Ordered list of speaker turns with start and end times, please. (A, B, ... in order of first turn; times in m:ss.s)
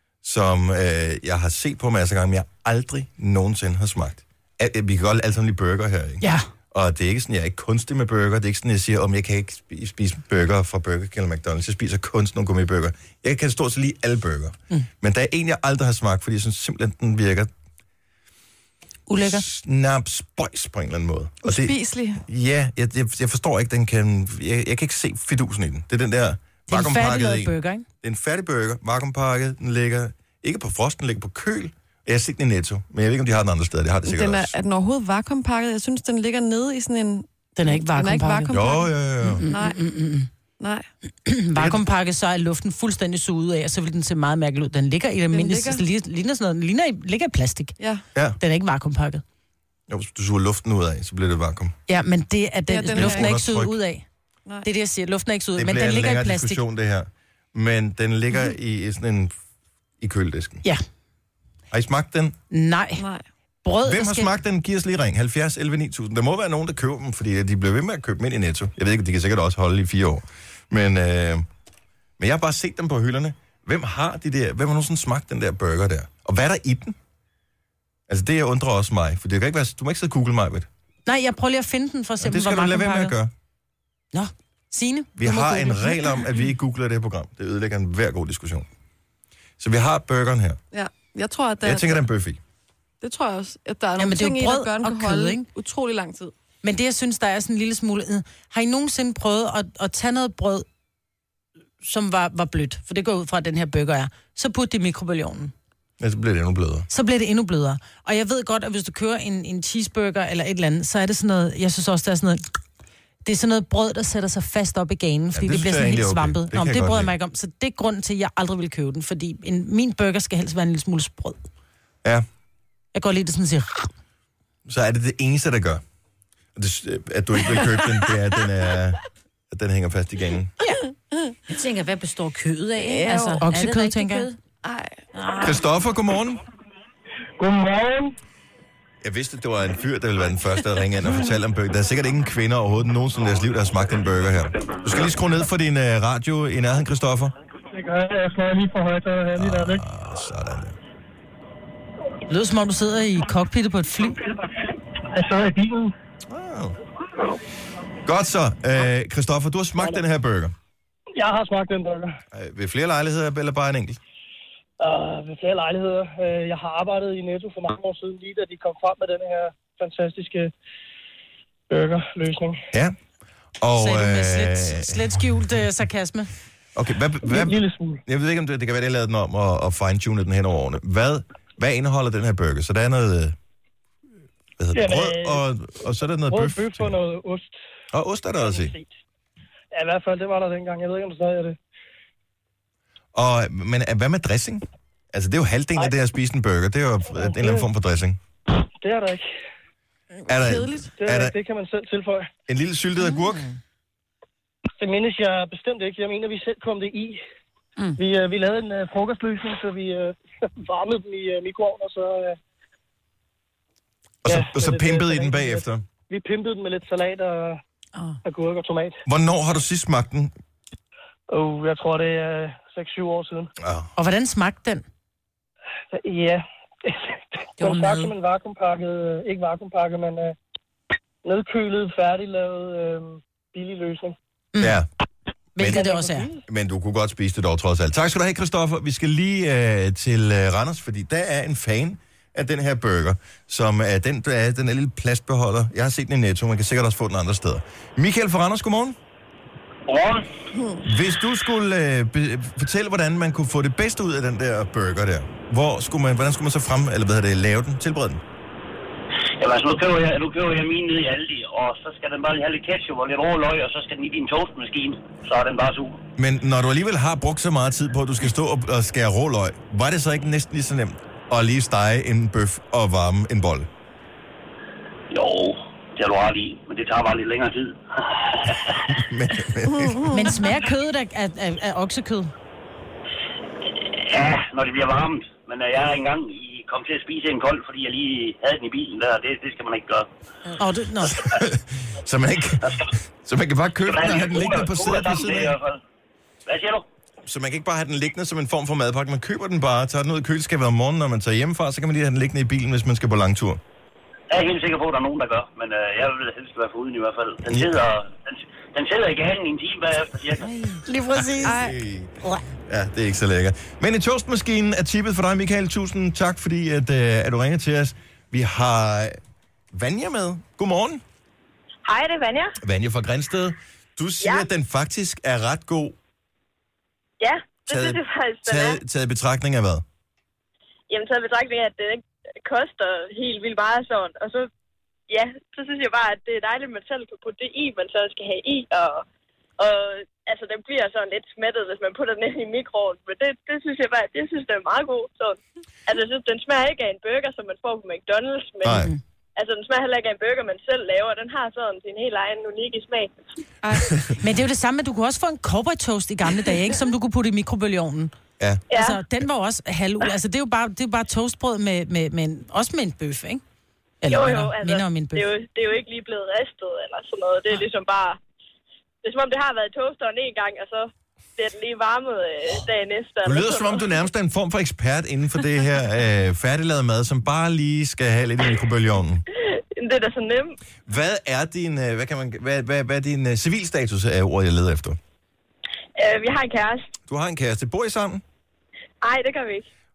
0:00.2-0:17.5 A
0:06.2-0:06.5 B
0:19.1-0:19.4 B
0:19.2-0:21.8 A
0:21.4-0:22.2 C
0:22.3-0:34.6 A
0:26.7-0:27.8 B
0:34.1-0:38.9 C
0:37.6-0:38.5 B
0:38.5-0:39.5 A
0:39.3-0:40.3 B
0:39.5-0:39.9 C
0:40.6-0:40.9 C
0:41.2-0:47.8 B
0:41.6-0:41.9 A
0:45.3-0:45.8 C
0:48.4-0:49.2 B
0:49.9-0:51.8 A
0:51.9-0:54.0 B
0:52.7-0:53.4 C
0:52.9-0:53.7 A
0:54.6-0:56.6 B
0:55.6-0:59.3 A
1:00.0-1:00.6 A
1:01.7-1:02.4 A
1:02.5-1:03.0 B
1:03.0-1:03.2 C
1:03.6-1:04.3 B
1:03.8-1:11.5 A
1:12.2-1:17.0 A
1:18.1-1:20.7 A
1:21.1-1:23.2 B
1:22.2-1:23.3 A
1:24.1-1:26.2 B
1:25.2-1:28.7 A
1:29.6-1:30.6 A
1:30.7-1:32.0 C
1:31.6-1:32.4 A
1:33.0-1:36.3 C
1:34.0-1:35.5 B
1:36.6-1:40.7 B
1:41.8-1:45.5 B
1:46.0-1:46.9 A
1:46.9-1:52.4 B
1:53.2-2:01.4 B
1:55.4-1:57.1 A
2:02.9-2:03.9 B
2:04.7-2:05.8 A
2:06.6-2:10.5 A
2:11.5-2:14.4 D
2:12.8-2:13.4 C
2:13.4-2:14.3 B
2:14.6-2:15.0 C
2:15.1-2:15.6 D
2:15.4-2:16.4 A
2:17.4-2:18.1 E
2:19.0-2:27.4 A
2:27.7-2:29.8 E
2:29.4-2:30.8 A
2:32.3-2:34.2 B
2:35.0-2:35.9 E
2:36.3-2:36.8 A
2:38.0-2:40.5 A
2:41.2-2:42.2 E
2:42.3-2:44.0 A
2:44.8-2:50.5 E
2:51.7-2:52.6 E
2:53.6-2:55.0 A
2:53.8-2:56.3 B
2:56.8-3:03.4 A
2:57.2-2:58.0 E
3:04.6-3:07.0 A
3:04.7-3:05.4 E
3:06.3-3:07.5 E
3:07.9-3:08.8 A
3:08.4-3:08.9 E
3:09.7-3:11.6 E
3:13.2-3:18.2 A
3:17.1-3:17.7 E
3:18.8-3:19.2 E
3:20.3-3:21.4 A
3:20.4-3:20.9 C
3:21.0-3:22.3 E
3:22.5-3:23.5 A
3:24.8-3:27.2 E
3:28.0-3:32.4 E
3:34.2-3:35.9 A
3:34.2-3:37.6 E
3:38.2-3:39.0 E
3:39.1-3:40.3 A
3:41.3-3:43.5 E
3:43.6-3:43.9 A
3:44.0-3:44.8 B
3:45.9-3:50.4 E
3:47.6-3:48.1 D
3:51.2-3:54.2 E
3:54.6-3:54.8 B
3:54.6-3:54.9 A
3:55.6-3:56.3 B
3:55.6-3:55.9 A
3:55.6-3:56.4 E
3:56.5-4:09.0 A
4:09.9-4:10.3 F
4:10.6-4:10.8 C
4:10.8-4:18.2 A
4:19.4-4:26.0 F
4:26.2-4:33.7 A
4:35.1-4:38.7 F
4:38.9-4:40.0 A
4:39.7-4:40.3 C
4:40.1-4:42.3 B
4:43.7-4:50.1 F
4:50.6-4:51.3 B
4:51.2-4:55.6 A
4:53.9-4:55.8 F
4:56.5-4:56.8 F
4:57.2-5:03.6 A
5:04.3-5:10.5 F
5:07.5-5:07.8 A
5:10.9-5:11.5 B
5:11.1-5:19.2 A
5:11.4-5:11.8 C
5:19.7-5:21.0 A
5:21.9-5:22.6 G
5:22.6-5:26.0 A
5:24.2-5:24.5 G
5:27.2-5:28.8 G
5:27.7-5:29.8 A
5:30.9-5:34.5 G
5:35.1-5:39.0 G
5:39.6-5:53.1 G
5:48.6-5:48.9 A
5:54.2-5:58.1 B
5:58.7-5:59.0 G
5:58.7-6:03.4 B
6:04.0-6:05.3 B
6:04.1-6:08.2 G
6:09.0-6:13.9 G
6:13.2-6:19.2 A
6:19.4-6:20.6 G
6:20.9-6:25.0 A
6:26.0-6:26.9 G
6:27.1-6:28.2 A
6:29.0-6:29.7 G